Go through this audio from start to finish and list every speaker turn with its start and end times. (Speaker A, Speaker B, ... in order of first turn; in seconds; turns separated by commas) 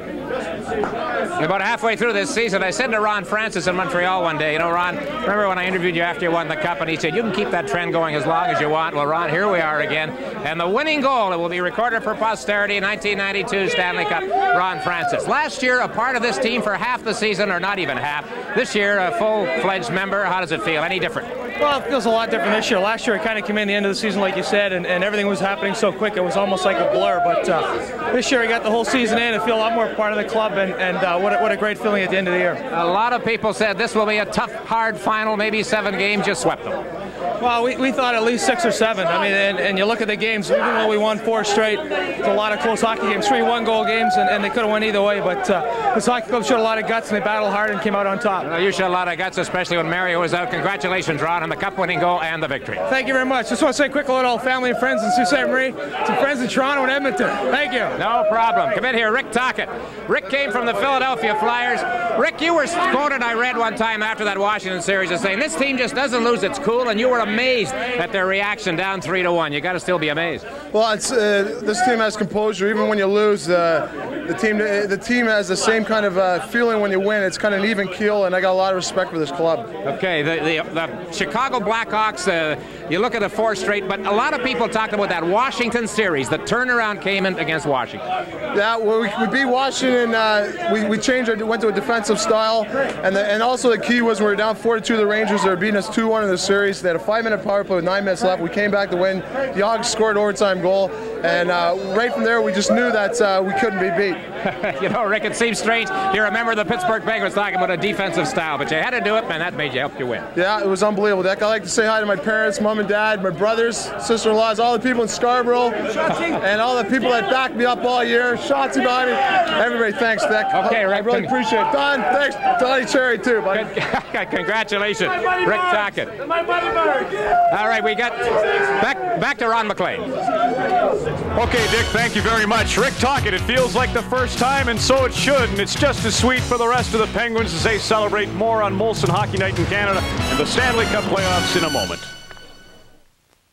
Speaker A: 1.4-21.3, Speaker B: 21.6-32.6, Speaker A: 32.7-36.8, Speaker B: 37.4-48.5, Speaker A: 48.4-52.8, Speaker B: 52.9-57.9, Speaker A: 58.0-70.4, Speaker C: 70.7-79.7, Speaker A: 79.8-88.0, Speaker C: 88.5-104.2, Speaker A: 104.4-110.3, Speaker C: 110.3-123.7, Speaker A: 120.5-121.3, Speaker A: 123.5-126.1, Speaker A: 127.5-130.1, Speaker D: 131.3-142.1